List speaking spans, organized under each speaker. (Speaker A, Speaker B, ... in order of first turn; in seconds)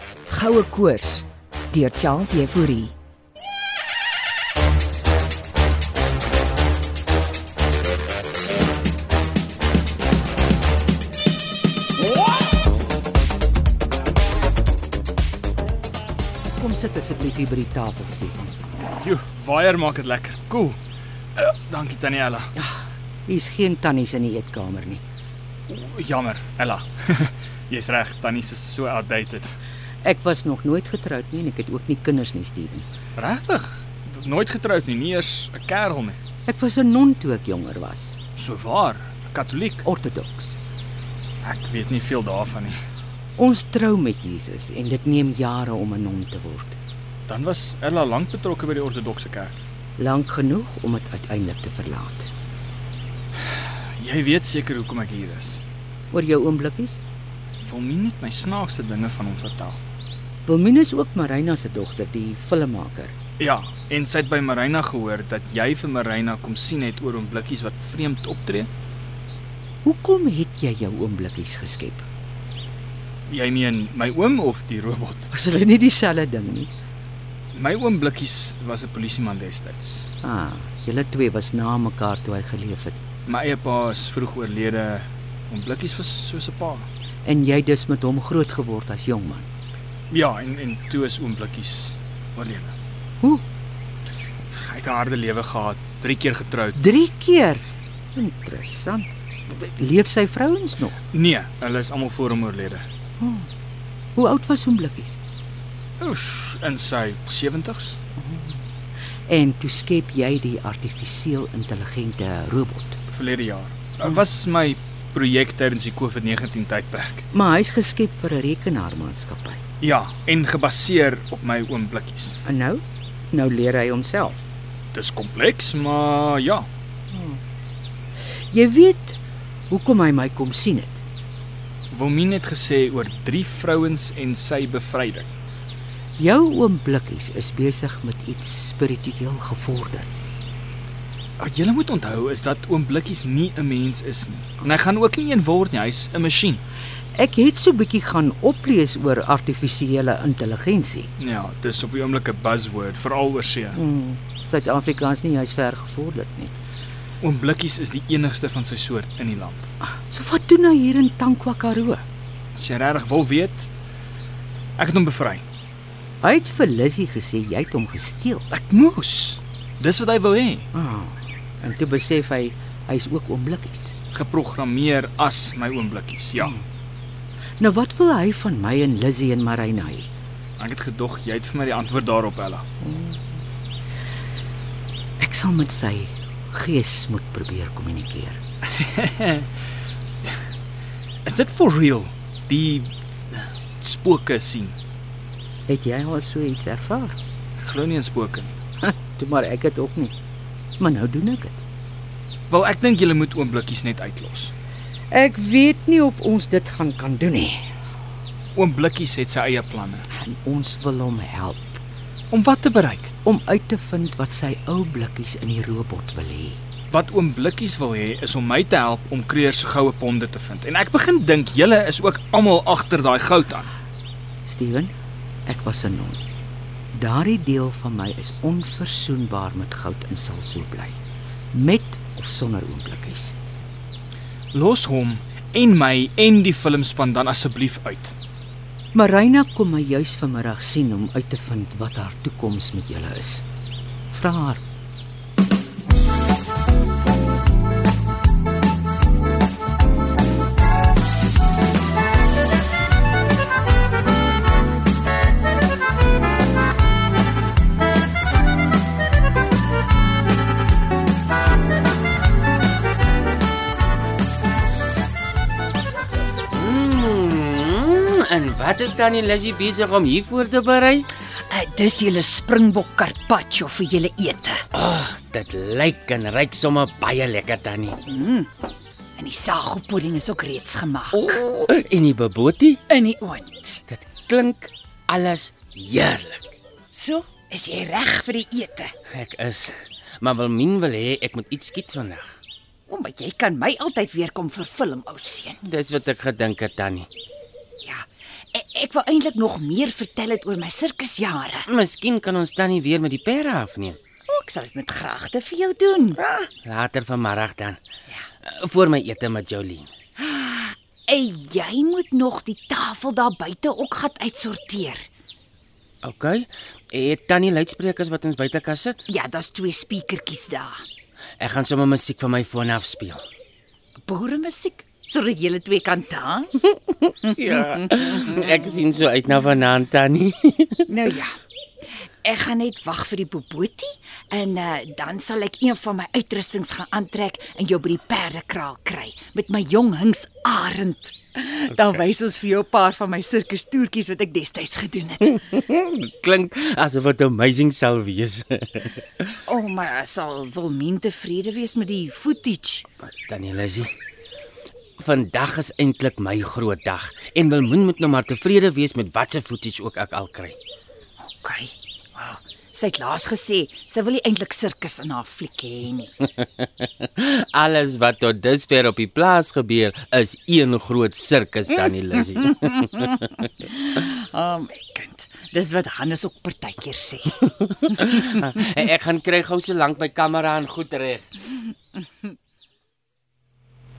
Speaker A: 0.3-1.0, 2.1-2.7, 271.5-274.6, 278.1-278.5, 279.2-281.4, 282.9-283.8, 286.9-288.9, 292.9-295.6, 297.8-301.7, 304.3-306.5, 310.2-315.1, 319.1-320.8, 324.1-326.7, 327.3-328.5, 330.9-331.4, 331.9-345.4, 349.5-352.9, 361.2-366.2, 372.6-378.2
Speaker B: 0.3-2.9
Speaker C: 16.6-18.5, 22.6-25.0, 30.0-32.9, 36.5-38.1, 39.8-40.6, 43.4-46.8, 50.0-52.3, 56.1-57.0, 60.5-63.1, 69.8-72.1, 75.3-76.7, 80.2-83.0, 87.2-89.5, 96.7-101.0, 103.2-103.5, 104.2-105.2, 108.2-108.6, 109.3-113.0, 117.3-119.6, 122.5-124.4, 127.1-127.4, 128.5-129.2, 129.7-131.0, 136.2-140.1, 147.2-151.1, 153.7-156.6, 159.8-162.0, 166.2-168.4, 170.7-173.9, 176.4-176.6, 177.6-180.1, 182.8-183.2, 185.2-188.4, 195.7-197.2, 198.8-200.1, 200.8-201.6, 205.1-207.6, 210.1-211.8, 213.2-216.6, 224.4-224.9, 225.5-226.2, 226.9-231.0, 231.5-233.3, 238.9-243.4, 244.1-244.6
Speaker D: 18.9-20.8, 21.4-22.5, 25.7-29.6, 33.1-36.2, 38.4-39.8, 41.4-42.8, 47.3-49.5, 54.0-55.6, 57.6-59.8, 63.4-68.7, 73.3-75.3, 77.5-80.1, 83.2-86.9, 90.1-92.7, 94.5-96.8, 101.1-102.9, 106.0-108.0, 113.1-117.2, 119.8-122.4, 124.9-126.7, 131.9-135.3, 141.4-146.6, 151.2-153.8, 157.2-159.7, 162.6-163.7, 164.8-165.4, 168.5-170.7, 174.1-176.5, 180.6-182.7, 188.8-189.5, 191.2-194.8, 197.6-198.6, 202.5-204.5, 208.5-210.1, 212.3-213.1, 216.9-223.7, 234.5-238.2
Speaker E: 266.5-271.1, 274.7-278.0, 281.1-282.8, 283.9-286.5, 289.1-292.4, 295.6-297.1, 301.7-304.0, 306.6-307.8, 308.4-309.9, 316.0-319.0, 321.4-323.2, 327.3-330.8, 345.6-349.0, 353.2-353.9, 355.0-360.6, 367.2-373.1, 378.1-381.2